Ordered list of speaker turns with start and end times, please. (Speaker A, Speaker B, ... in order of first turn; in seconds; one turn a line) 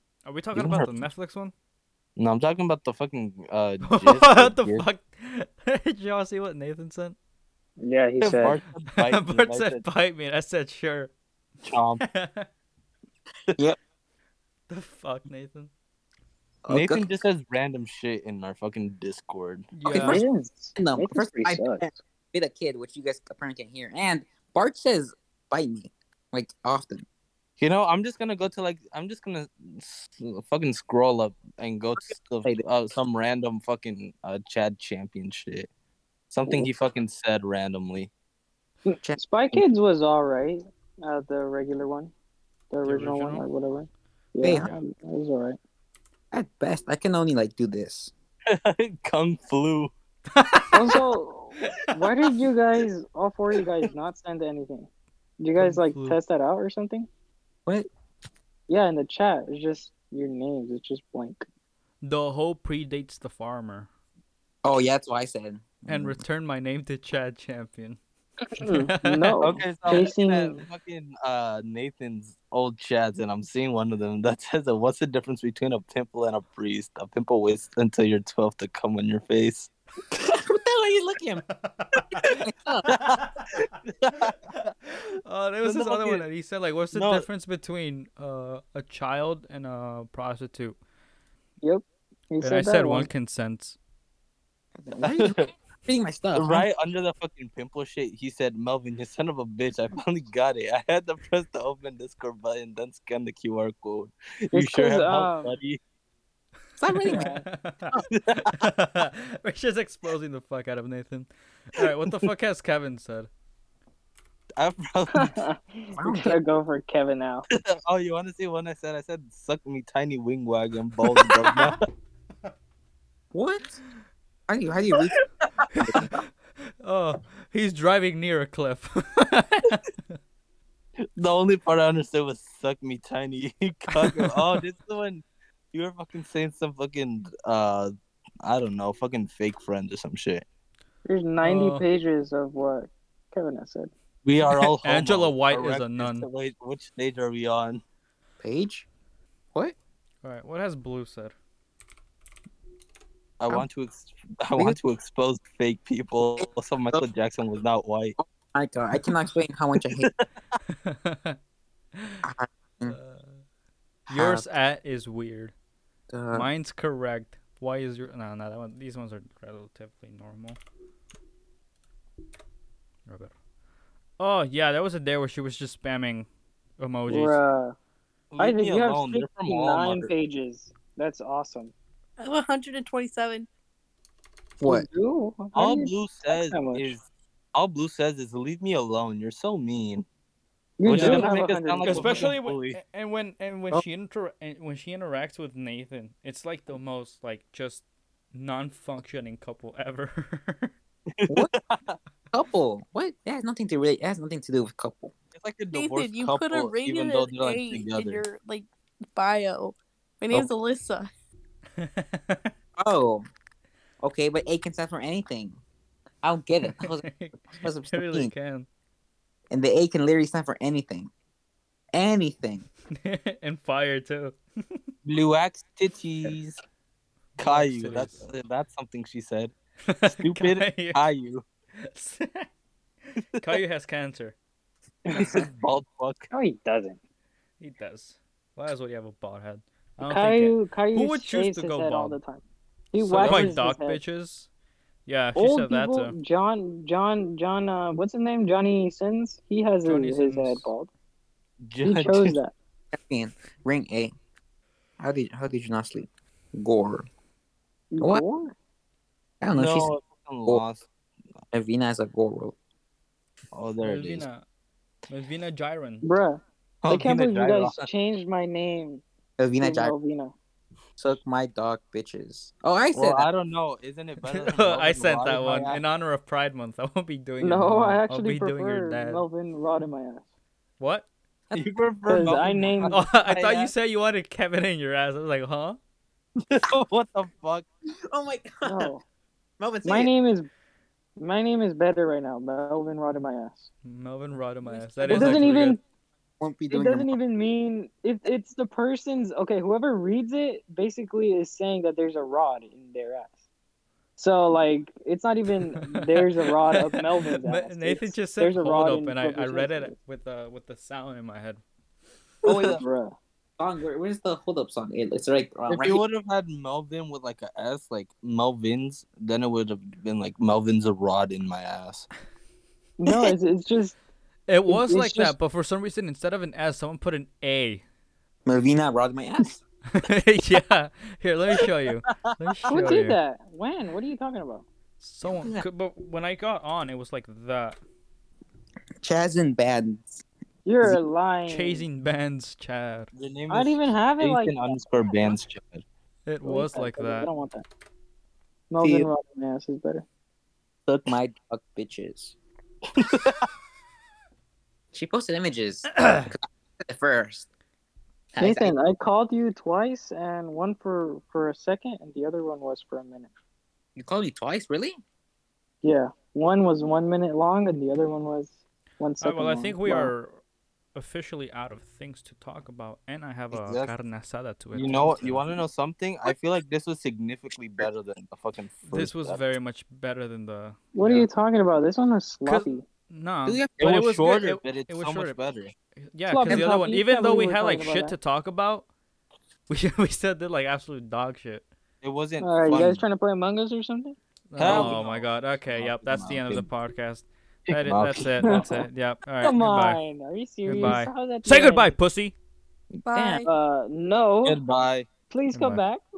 Speaker A: 0.3-1.5
Speaker B: 0.5-1.0
Speaker B: 2.2-4.8
Speaker A: 3.8-7.2
Speaker C: 7.8-8.6
Speaker B: 8.2-9.8
Speaker A: 9.0-11.1
Speaker B: 11.6-12.0
Speaker A: 12.0-12.5
Speaker A: 14.7-15.7
Speaker D: 16.6-17.1
Speaker B: 16.7-19.7
Speaker A: 19.7-20.2
Speaker D: 19.9-20.2
Speaker C: 19.9-22.0
Speaker D: 20.8-27.1
Speaker B: 27.6-35.7
Speaker B: 36.3-38.1
Speaker C: 38.9-42.1
Speaker D: 39.0-39.6
Speaker C: 42.7-45.6
Speaker A: 42.8-43.5
Speaker D: 44.4-44.7
Speaker D: 46.3-48.1
Speaker B: 48.5-49.9
Speaker A: 50.3-51.0
Speaker C: 50.7-54.9
Speaker C: 55.4-57.1
Speaker A: 55.6-56.2
Speaker C: 58.7-61.5
Speaker A: 62.0-63.9
Speaker D: 64.6-66.2
Speaker A: 65.9-68.0
Speaker C: 68.5-70.7
Speaker A: 68.6-69.4
Speaker B: 69.4-79.7
Speaker D: 80.1-81.4
Speaker A: 81.5-83.7
Speaker D: 82.2-82.9
Speaker B: 82.9-84.5
Speaker A: 84.5-90.8
Speaker B: 85.6-86.3
Speaker B: 86.9-87.2
Speaker C: 91.6-93.1
Speaker A: 92.4-93.8
Speaker D: 94.8-96.7
Speaker B: 95.0-95.5
Speaker B: 96.3-105.8
Speaker C: 104.5-105.6
Speaker D: 106.8-107.3
Speaker A: 107.0-113.3
Speaker C: 107.0-107.4
Speaker B: 108.1-108.6
Speaker B: 114.6-115.4
Speaker C: 115.1-117.5
Speaker D: 116.0-116.4
Speaker B: 117.5-121.8
Speaker D: 123.3-123.8
Speaker D: 124.5-125.2
Speaker A: 125.8-126.2
Speaker D: 125.8-126.1
Speaker A: 126.8-130.0
Speaker B: 131.2-140.4
Speaker A: 134.0-134.4
Speaker C: 141.1-143.9
Speaker A: 141.4-141.8
Speaker B: 144.2-147.8
Speaker A: 144.5-146.3
Speaker D: 148.4-148.9
Speaker A: 150.2-151.3
Speaker B: 153.4-158.2
Speaker D: 156.4-157.1
Speaker D: 158.2-160.1
Speaker B: 159.8-160.6
Speaker A: 160.7-161.4
Speaker A: 161.9-162.2
Speaker D: 162.2-163.0
Speaker A: 162.9-163.4
Speaker D: 164.1-164.4
Speaker A: 164.1-165.5
Speaker D: 166.1-166.5
Speaker A: 166.3-170.6
Speaker A: 173.1-173.3
Speaker A: 174.2-176.3
Speaker A: 176.8-177.4
Speaker C: 177.1-177.8
Speaker B: 178.3-180.1
Speaker C: 178.4-181.7
Speaker E: 182.2-183.5
Speaker D: 184.6-184.9
Speaker C: 184.7-186.9
Speaker B: 185.5-190.1
Speaker C: 190.8-192.3
Speaker B: 190.8-192.8
Speaker A: 190.9-191.3
Speaker A: 191.8-200.7
Speaker B: 201.2-202.0
Speaker D: 202.3-205.1
Speaker B: 205.3-208.2
Speaker E: 205.7-211.1
Speaker A: 211.8-212.5
Speaker D: 212.8-213.3
Speaker D: 214.0-215.6
Speaker D: 216.2-218.3
Speaker A: 216.6-218.7
Speaker D: 219.5-221.1
Speaker D: 221.9-222.7
Speaker A: 222.9-224.8
Speaker B: 225.1-226.6
Speaker A: 227.4-228.3
Speaker B: 227.4-229.5
Speaker A: 229.9-231.1
Speaker B: 230.0-231.4
Speaker A: 231.8-232.5
Speaker A: 233.1-234.3
Speaker C: 235.1-235.4
Speaker B: 235.1-236.3
Speaker C: 236.3-237.0
Speaker A: 237.6-242.2
Speaker C: 240.1-244.0
Speaker A: 243.0-244.5
Speaker B: 243.2-243.5
Speaker A: 245.1-246.2
Speaker C: 245.4-250.9
Speaker A: 249.8-250.7
Speaker B: 251.6-252.4
Speaker C: 251.8-252.5
Speaker D: 252.9-254.1
Speaker D: 255.0-257.1
Speaker C: 257.9-258.5
Speaker D: 258.0-258.2
Speaker D: 259.4-259.9
Speaker B: 259.5-260.9
Speaker D: 261.5-262.6
Speaker B: 263.5-264.2
Speaker A: 263.8-264.4
Speaker A: 265.1-266.1
Speaker C: 266.0-269.0
Speaker B: 266.8-267.9
Speaker D: 269.4-269.9
Speaker C: 269.6-270.3
Speaker D: 271.0-273.3
Speaker B: 272.9-275.8
Speaker A: 274.2-279.2
Speaker C: 277.4-280.2
Speaker A: 280.8-281.1
Speaker B: 281.5-283.7
Speaker C: 282.1-283.0
Speaker A: 282.9-285.8
Speaker B: 286.4-287.6
Speaker D: 288.1-288.9
Speaker C: 288.6-289.0
Speaker D: 289.6-290.1
Speaker C: 289.8-290.5
Speaker C: 291.2-293.7
Speaker A: 293.9-295.8
Speaker C: 295.0-295.8
Speaker D: 295.0-295.5
Speaker D: 296.4-297.2
Speaker C: 296.7-303.4
Speaker C: 304.2-309.9
Speaker A: 306.7-311.6
Speaker D: 312.4-312.8
Speaker B: 312.5-312.8
Speaker C: 312.5-313.2
Speaker D: 313.6-316.0
Speaker B: 315.7-322.1
Speaker C: 323.0-324.0
Speaker A: 324.5-327.8
Speaker C: 324.7-325.4
Speaker D: 328.5-329.6
Speaker A: 329.9-333.2
Speaker C: 332.7-334.7
Speaker A: 335.0-337.8
Speaker D: 335.3-335.7
Speaker D: 339.0-340.2
Speaker C: 340.7-341.9
Speaker A: 341.5-343.1
Speaker B: 343.1-345.8
Speaker C: 343.5-345.3
Speaker A: 346.3-347.3
Speaker C: 346.4-347.6
Speaker C: 348.7-350.0
Speaker D: 348.8-349.1
Speaker D: 350.9-352.4
Speaker B: 352.9-353.5
Speaker D: 354.9-357.5
Speaker A: 356.0-356.3
Speaker D: 358.4-358.7
Speaker C: 358.4-363.3
Speaker D: 363.9-365.0
Speaker C: 365.8-370.1
Speaker A: 369.2-370.4
Speaker A: 370.9-375.4
Speaker B: 373.5-373.9
Speaker B: 374.7-379.5
Speaker A: 378.9-381.3
Speaker C: 380.9-382.9
Speaker A: 382.5-385.4
Speaker D: 383.4-383.8
Speaker B: 383.8-385.7
Speaker A: 386.1-388.9
Speaker C: 386.3-388.2
Speaker A: 389.7-391.7
Speaker B: 392.0-393.0
Speaker C: 392.4-394.2
Speaker A: 394.5-400.0
Speaker B: 394.6-396.7
Speaker B: 397.7-398.7
Speaker C: 399.4-401.9
Speaker A: 400.7-402.4
Speaker E: 403.1-403.5
Speaker D: 403.1-403.4
Speaker C: 403.4-404.6
Speaker B: 404.4-405.1
Speaker C: 405.3-406.0
Speaker A: 405.5-405.8